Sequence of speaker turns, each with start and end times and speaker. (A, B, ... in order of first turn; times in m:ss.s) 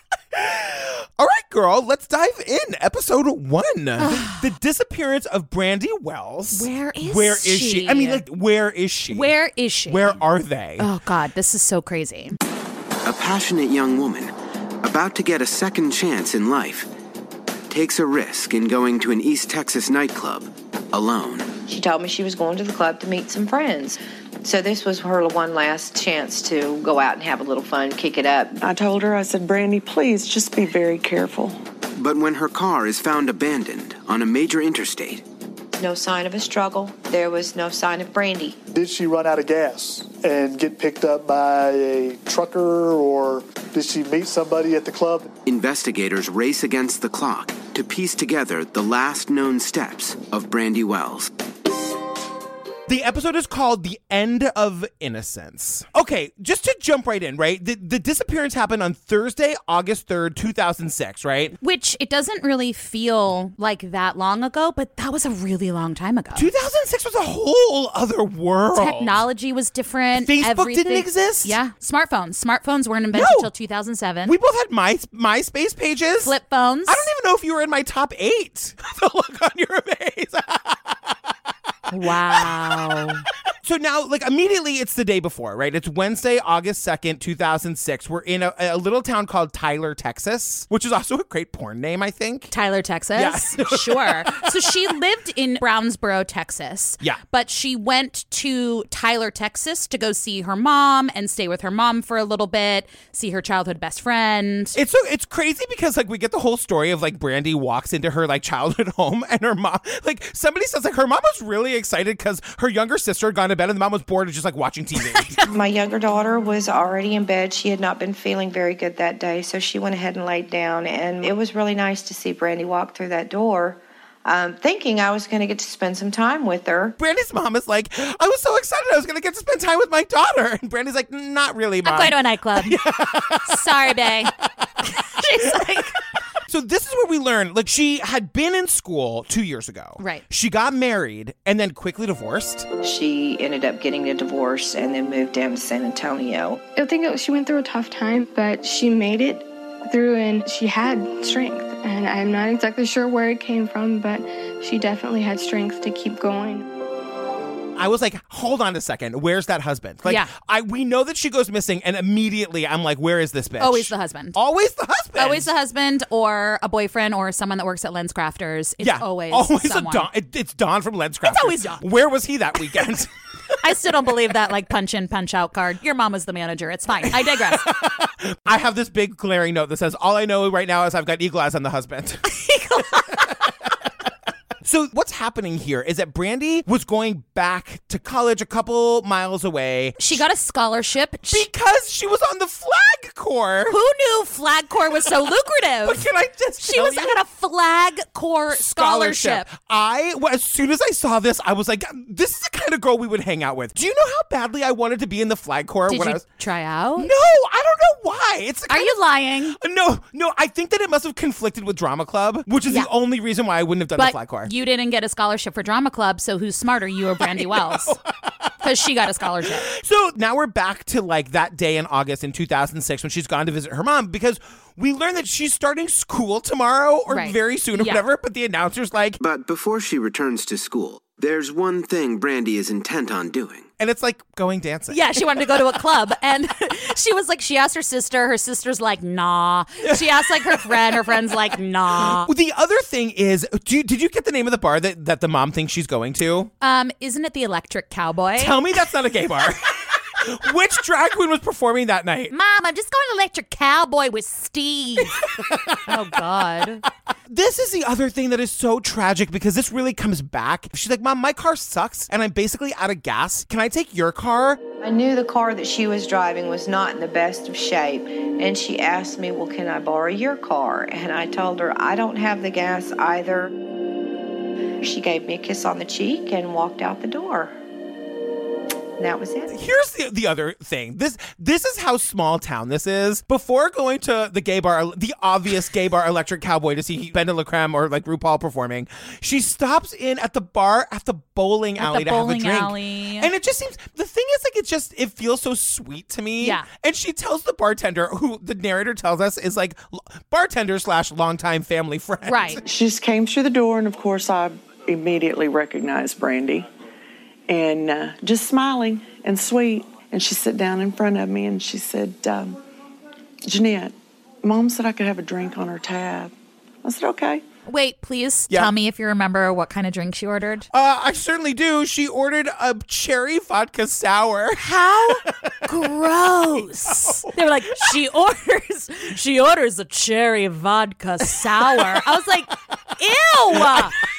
0:00.3-0:10.9 A
0:04.0-0:04.5 B
0:06.5-0:08.2 B
0:09.1-0:10.2 B
0:10.8-0:12.4 B
0:13.0-0:16.9 C
0:17.7-0:21.5 C
0:21.7-0:28.6 D
0:28.6-0:31.6 E
0:31.9-0:35.2 C
0:35.7-0:38.6 D
0:38.7-0:45.3 F
0:45.4-0:51.3 C
0:52.9-1:01.5 A
1:01.6-1:06.5 B
1:06.3-1:09.2 A
1:08.7-1:14.3 B
1:10.1-1:11.6 A
1:13.1-1:13.5 A
1:14.2-1:16.3 A
1:16.2-1:17.1 B
1:16.8-1:21.1 A
1:21.9-1:23.2 B
1:23.6-1:32.5 A
1:32.5-1:44.8 B
1:33.1-1:34.7 A
1:44.7-1:55.4 A
1:55.0-1:55.4 B
1:55.5-2:07.0 D
2:07.0-2:14.1 A
2:11.8-2:12.8 B
2:13.4-2:14.3 B
2:15.0-2:15.9 B
2:16.5-2:22.7 A
2:20.0-2:20.2 B
2:22.8-2:26.6 D
2:26.8-2:36.7 G
2:37.8-2:45.5 A
2:40.0-2:40.3 B
2:43.6-2:44.4 B
2:45.2-2:50.1 B
2:48.8-2:53.1 A
2:51.2-2:51.8 B
2:53.6-2:57.6 B
2:57.2-3:02.2 A
3:02.2-3:03.4 B
3:04.6-3:10.2 A
3:10.0-3:11.4 B
3:11.3-3:13.8 A
3:13.7-3:16.0 B
3:15.8-3:17.2 A
3:16.6-3:19.5 B
3:18.5-3:26.2 A
3:25.9-3:27.1 B
3:27.0-3:34.5 A
3:28.7-3:29.6 B
3:33.9-3:38.0 B
3:37.2-3:38.5 A
3:38.6-3:39.7 B
3:39.7-3:49.2 A
3:47.1-3:48.0 B
3:49.2-3:53.7 C
3:53.8-3:55.0 A
3:54.9-4:02.3 B
3:59.8-4:01.1 A
4:02.0-4:06.5 A
4:06.6-4:08.6 B
4:08.4-4:12.3 A
4:12.3-4:15.2 B
4:15.2-4:15.9 A
4:15.8-4:16.8 B
4:17.3-4:24.6 A
4:24.8-4:33.5 D
4:34.8-4:37.5 D
4:39.0-4:39.5 D
4:39.5-5:02.6 A
4:51.8-4:53.3 B
4:56.4-4:56.6 B
5:02.2-5:02.6 B
5:02.6-5:06.7 E
5:07.5-5:12.6 E
5:13.4-5:16.3 E
5:16.8-5:17.4 E
5:17.6-5:20.6 B
5:20.7-5:25.6 A
5:24.6-5:34.0 B
5:26.9-5:27.3 A
5:31.4-5:32.0 A